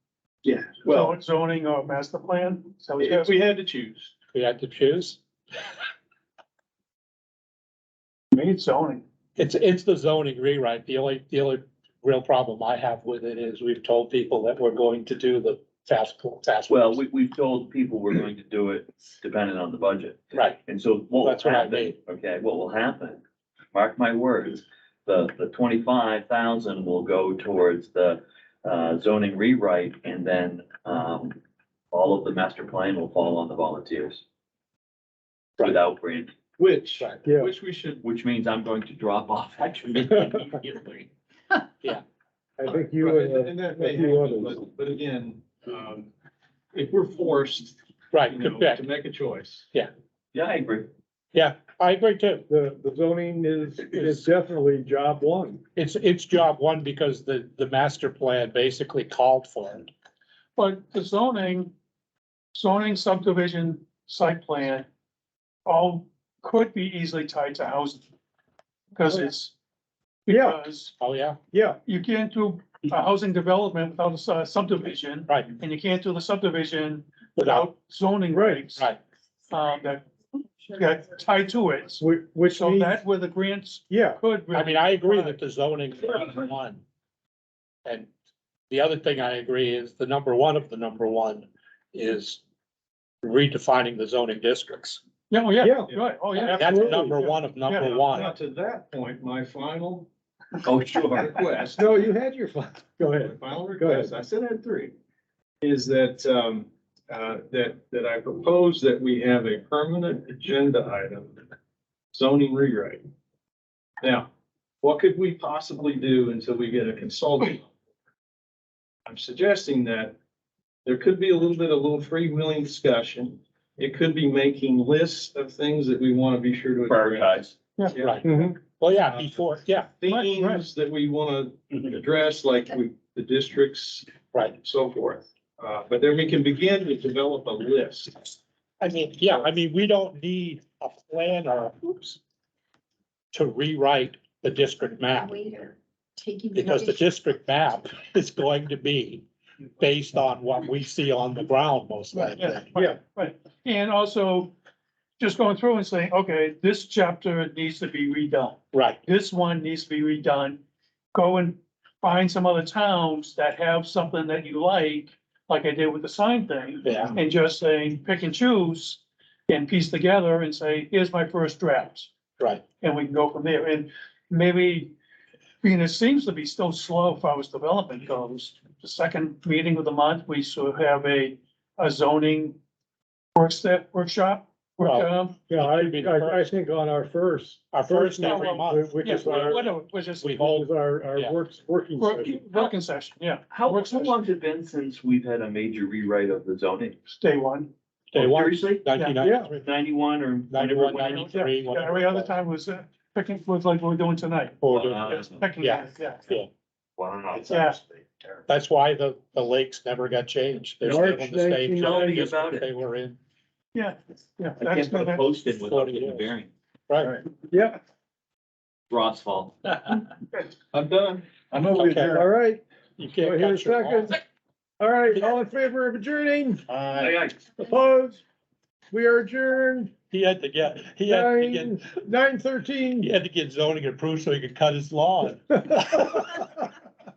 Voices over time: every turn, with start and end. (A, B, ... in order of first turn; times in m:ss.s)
0:00.4-0:01.2 A
0:00.9-0:03.2 B
0:03.0-0:04.1 A
0:04.3-0:05.2 C
0:08.3-0:09.0 B
0:09.4-0:17.0 C
0:16.7-0:23.2 D
0:20.3-0:20.6 C
0:21.2-0:22.0 C
0:23.7-0:31.4 D
0:31.9-0:34.2 D
0:35.6-0:36.3 D
0:36.6-0:38.0 A
0:37.2-0:37.5 E
0:38.0-0:41.1 D
0:42.6-0:44.6 E
0:42.7-0:46.1 A
0:46.7-0:47.8 A
0:48.1-0:48.8 C
0:48.3-0:49.7 A
0:50.3-0:50.9 D
0:51.3-0:52.5 C
0:52.5-0:55.6 E
0:53.9-0:54.3 C
0:55.8-0:59.9 C
1:00.6-1:01.7 B
1:02.6-1:04.9 B
1:05.7-1:08.0 B
1:09.2-1:09.5 B
1:10.3-1:10.6 E
1:10.3-1:10.9 B
1:11.0-1:11.4 C
1:11.5-1:11.8 E
1:11.9-1:18.8 B
1:15.3-1:15.5 C
1:17.4-1:17.7 C
1:18.3-1:18.7 E
1:19.5-1:20.0 B
1:20.8-1:21.2 F
1:20.8-1:22.0 B
1:22.0-1:23.0 E
1:22.8-1:25.3 B
1:23.9-1:24.2 E
1:24.3-1:25.1 F
1:24.5-1:26.8 C
1:27.8-1:28.1 C
1:28.7-1:32.4 C
1:33.2-1:35.0 C
1:35.3-1:37.3 B
1:35.6-1:37.2 E
1:36.5-1:38.3 C
1:36.7-1:38.0 F
1:38.0-1:40.1 A
1:40.6-1:41.7 D
1:41.2-1:42.1 A
1:41.8-1:44.1 E
1:43.2-1:44.9 A
1:45.6-1:51.4 A
1:52.1-1:53.0 A
1:54.0-1:54.3 A
1:54.8-1:57.7 A
1:59.1-2:00.2 A
2:00.8-2:08.5 A
2:06.9-2:07.6 D
2:08.0-2:09.9 C
2:08.2-2:08.6 E
2:10.0-2:18.4 A
2:10.2-2:10.6 F
2:18.8-2:22.2 C
2:23.3-2:25.4 C
2:25.2-2:27.0 F
2:26.6-2:29.3 C
2:29.8-2:32.7 C
2:32.2-2:32.5 F
2:32.7-2:33.0 E
2:33.1-2:34.5 B
2:35.2-2:40.6 B
2:38.7-2:39.0 C
2:41.2-2:52.1 B
2:46.8-2:47.2 C
2:52.8-2:54.9 B
2:55.6-3:02.6 B
3:03.4-3:05.4 B
3:04.8-3:06.4 C
3:05.5-3:12.4 E
3:07.7-3:09.6 C
3:08.3-3:08.6 F
3:09.0-3:10.3 B
3:09.2-3:09.6 F
3:10.2-3:11.4 C
3:12.0-3:14.1 B
3:13.5-3:17.0 D
3:17.2-3:17.7 B
3:18.1-3:19.7 C
3:18.1-3:18.9 D
3:19.2-3:19.5 E
3:19.5-3:21.4 D
3:20.5-3:22.3 C
3:21.2-3:22.4 F
3:21.8-3:24.5 B
3:24.6-3:26.5 C
3:24.6-3:25.5 D
3:25.4-3:26.2 B
3:25.4-3:26.0 F
3:27.0-3:28.4 D
3:27.5-3:27.8 B
3:28.5-3:33.2 C
3:30.8-3:32.3 E
3:31.7-3:32.7 D
3:33.8-3:35.2 B
3:34.6-3:36.5 D
3:35.6-3:36.3 C
3:36.9-3:37.2 C
3:37.5-3:37.8 E
3:38.9-3:40.1 D
3:40.7-3:42.0 D
3:41.8-3:42.2 C
3:41.9-3:42.6 E
3:43.0-3:44.2 C
3:43.2-3:44.2 E
3:44.8-3:46.6 E
3:46.7-3:47.6 D
3:47.5-3:48.2 E
3:48.9-3:49.9 E
3:50.1-3:51.8 C
3:51.1-3:53.1 E
3:53.0-3:56.4 C